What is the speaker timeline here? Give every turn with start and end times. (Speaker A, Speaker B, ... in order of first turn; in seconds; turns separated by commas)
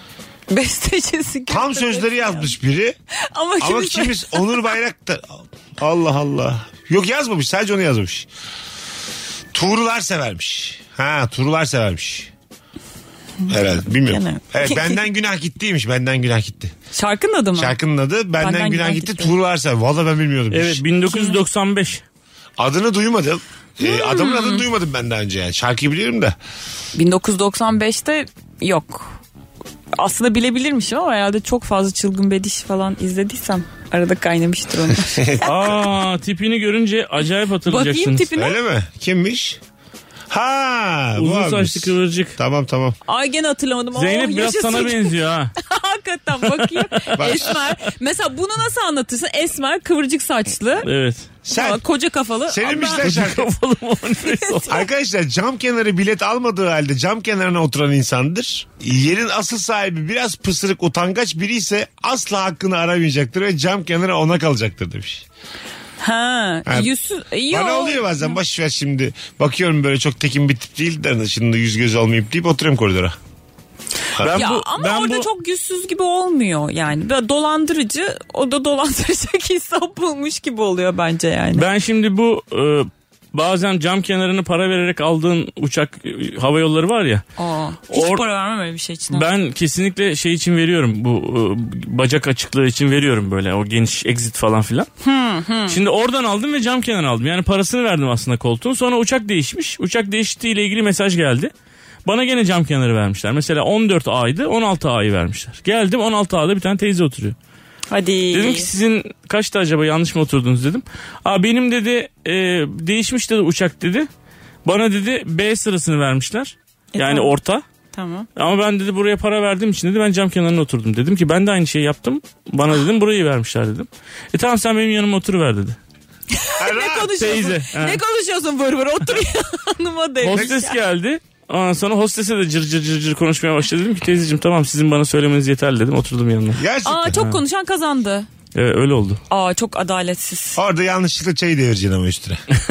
Speaker A: 0.5-2.5, Speaker B: 1.5-3.0, Speaker A: 3.2-4.7, Speaker B: 3.6-8.3, Speaker B: 9.5-12.3, Speaker A: 13.4-15.0, Speaker B: 13.5-16.7, Speaker A: 16.9-17.8, Speaker B: 17.6-20.8, Speaker A: 18.4-19.4, Speaker C: 20.5-22.0, Speaker A: 21.1-21.4, Speaker B: 22.6-26.4, Speaker A: 23.8-24.7, Speaker A: 26.9-29.2, Speaker A: 30.0-35.4, Speaker B: 34.9-35.5, Speaker C: 35.4-38.3, Speaker A: 37.7-38.6, Speaker B: 38.4-39.6, Speaker B: 40.3-43.0, Speaker C: 41.2-42.4, Speaker A: 43.1-50.9, Speaker C: 44.0-45.5, Speaker C: 46.5-47.2, Speaker B: 47.2-47.6, Speaker C: 50.9-51.3, Speaker B: 51.5-51.8, Speaker A: 51.5-53.1, Speaker B: 52.5-53.5, Speaker C: 53.0-54.8, Speaker A: 54.3-54.7, Speaker B: 54.7-65.3, Speaker A: 66.0-68.3, Speaker B: 67.5-73.2, Speaker B: 74.1-74.4, Speaker C: 74.2-75.3, Speaker A: 74.3-81.7, Speaker C: 81.5-87.2, Speaker A: 87.4-89.3, Speaker C: 87.9-88.2, Speaker C: 89.1-94.9, Speaker A: 95.0-95.8, Speaker C: 95.7-101.5, Speaker C: 102.0-107.4, Speaker A: 107.9-108.7, Speaker C: 108.3-114.1, Speaker C: 114.7-117.6, Speaker A: 117.0-117.3, Speaker A: 117.9-118.3, Speaker C: 118.4-125.8, Speaker A: 126.3-130.8, Speaker B: 126.6-127.2, Speaker C: 127.2-128.0, Speaker C: 130.2-136.6, Speaker B: 136.6-137.3, Speaker A: 136.8-138.3, Speaker C: 138.5-139.2, Speaker A: 139.3-140.6, Speaker B: 140.6-142.4